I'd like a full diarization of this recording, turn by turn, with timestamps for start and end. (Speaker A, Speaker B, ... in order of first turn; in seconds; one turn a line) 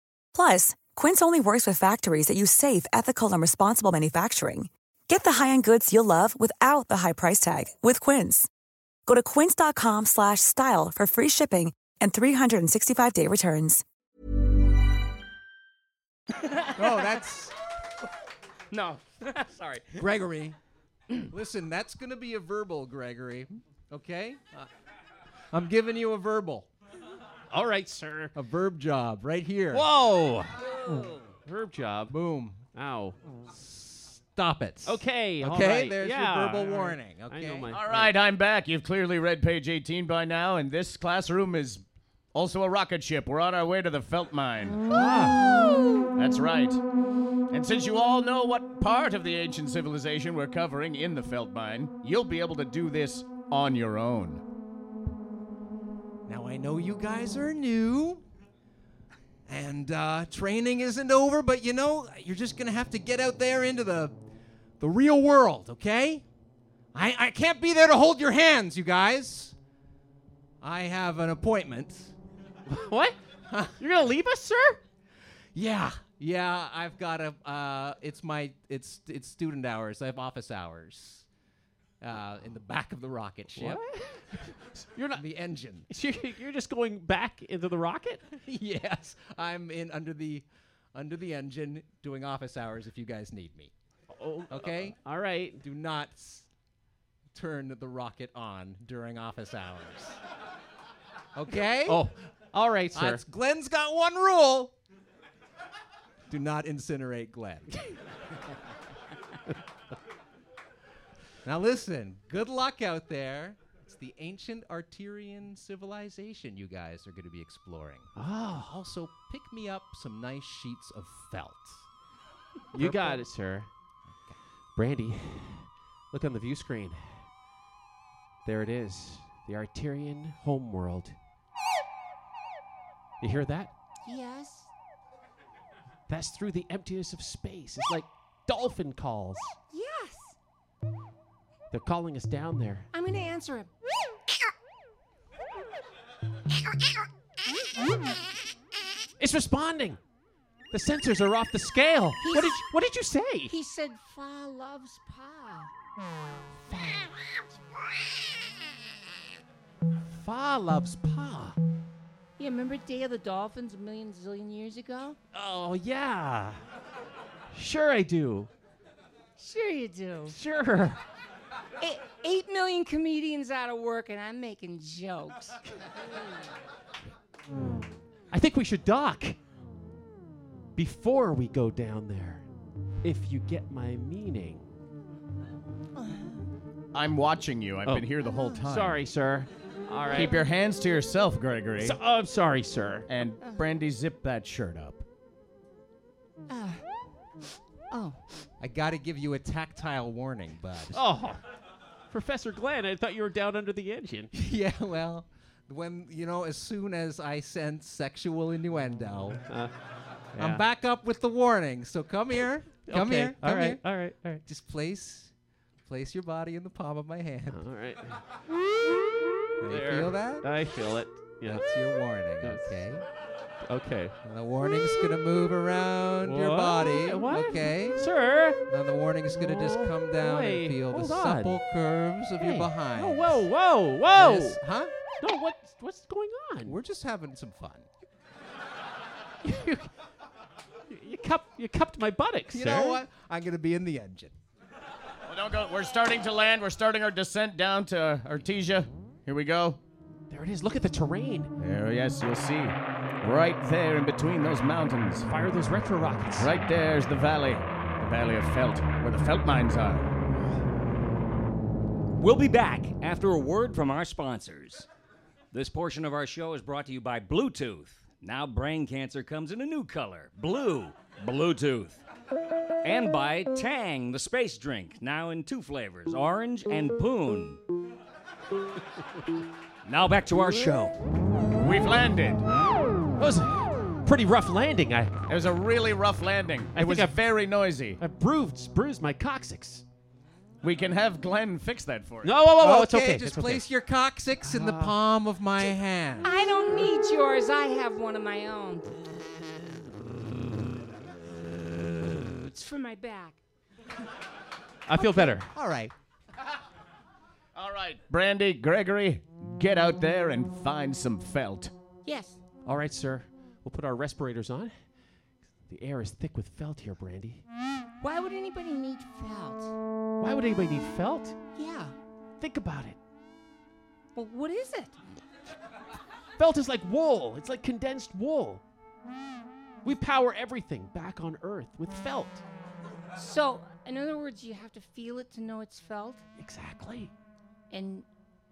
Speaker A: 0.3-8.5
Speaker A: 9.1-13.8
Speaker B: 16.7-17.5
Speaker C: 18.7-20.0
Speaker B: 20.0-20.6
Speaker B: 21.3-24.7
Speaker B: 25.5-26.7
Speaker D: 27.5-28.3
Speaker B: 28.3-29.9
Speaker D: 29.7-32.1
Speaker B: 32.1-32.6
Speaker D: 32.7-33.2
Speaker B: 33.5-37.7
Speaker D: 34.8-38.1
Speaker E: 37.7-44.8
Speaker D: 44.9-45.5
Speaker E: 46.2-46.8
Speaker E: 47.5-54.4
Speaker B: 56.3-58.2
Speaker B: 59.5-64.1
Speaker B: 64.8-66.2
Speaker B: 66.9-69.5
Speaker B: 70.6-72.1
Speaker D: 72.7-73.2
Speaker B: 73.5-73.8
Speaker D: 73.8-74.8
Speaker B: 75.5-81.2
Speaker B: 82.0-83.8
Speaker D: 83.5-85.2
Speaker B: 85.1-85.9
Speaker D: 85.9-88.4
Speaker B: 88.5-93.7
Speaker D: 94.1-95.6
Speaker B: 94.5-95.0
Speaker B: 95.6-96.5
Speaker B: 97.3-100.2
Speaker B: 101.3-102.0
Speaker D: 101.5-103.2
Speaker B: 102.9-104.7
Speaker B: 106.3-107.8
Speaker B: 111.4-118.1
Speaker D: 118.2-118.7
Speaker B: 118.6-121.9
Speaker D: 122.7-123.7
Speaker B: 122.7-123.2
Speaker D: 124.8-127.2
Speaker D: 128.4-131.2
Speaker D: 133.2-133.7
Speaker F: 134.0-134.7
Speaker D: 136.1-139.6
Speaker F: 139.7-140.3
Speaker D: 141.7-142.9
Speaker F: 142.9-143.7
Speaker D: 149.2-150.0
Speaker D: 150.7-153.5
Speaker F: 152.2-152.7
Speaker F: 153.5-155.7
Speaker D: 156.7-157.1
Speaker D: 160.1-161.6
Speaker F: 162.4-165.2
Speaker D: 165.3-166.6
Speaker D: 167.5-168.5
Speaker F: 169.4-170.4
Speaker D: 170.3-171.0
Speaker F: 171.8-175.6
Speaker D: 178.3-179.4
Speaker D: 180.8-182.4
Speaker D: 183.0-184.7
Speaker F: 185.9-186.4
Speaker E: 186.9-189.0
Speaker D: 188.6-190.4
Speaker E: 190.1-192.0
Speaker D: 191.8-193.1
Speaker E: 193.1-195.0
Speaker F: 196.5-196.8
Speaker F: 197.9-198.2
Speaker B: 198.6-201.0
Speaker D: 200.9-201.4
Speaker D: 202.1-204.3
Speaker B: 204.3-209.4
Speaker D: 209.5-209.7
Speaker D: 210.3-210.6
Speaker B: 210.4-213.8
Speaker D: 212.9-214.4
Speaker B: 214.4-215.3
Speaker B: 215.8-217.6
Speaker D: 217.5-218.2
Speaker D: 219.6-221.7
Speaker B: 219.6-220.5
Speaker B: 221.4-223.0
Speaker D: 222.4-223.0
Speaker D: 223.6-224.1
Speaker B: 224.2-228.0
Speaker D: 226.2-228.6
Speaker B: 228.7-233.4
Speaker D: 229.3-231.6
Speaker D: 232.4-234.6
Speaker B: 234.1-234.9
Speaker D: 235.2-236.8
Speaker B: 236.6-237.9
Speaker D: 239.4-239.9
Speaker D: 240.9-243.0
Speaker B: 242.5-244.3
Speaker E: 245.2-249.8
Speaker D: 250.3-251.5
Speaker E: 251.6-255.3
Speaker D: 255.2-256.5
Speaker E: 256.4-260.1
Speaker C: 262.2-264.9
Speaker C: 265.5-272.0
Speaker C: 272.8-277.6
Speaker C: 279.9-280.9
Speaker E: 281.6-282.4
Speaker D: 283.2-285.1
Speaker E: 285.3-288.0
Speaker D: 286.7-287.2
Speaker D: 288.0-289.8
Speaker E: 290.6-292.4
Speaker D: 292.2-293.7
Speaker B: 292.6-296.4
Speaker D: 294.4-294.9
Speaker F: 296.2-299.0
Speaker F: 302.2-303.4
Speaker D: 304.9-305.5
Speaker B: 305.4-305.9
Speaker E: 307.5-311.7
Speaker F: 312.0-312.4
Speaker D: 312.6-314.7
Speaker D: 315.7-317.4
Speaker F: 318.0-319.7
Speaker D: 320.2-321.4
Speaker F: 321.6-321.9
Speaker D: 322.4-323.0
Speaker F: 324.1-325.0
Speaker D: 326.4-328.6
Speaker D: 329.8-332.4
Speaker F: 333.1-336.2
Speaker D: 336.4-337.1
Speaker F: 337.7-338.1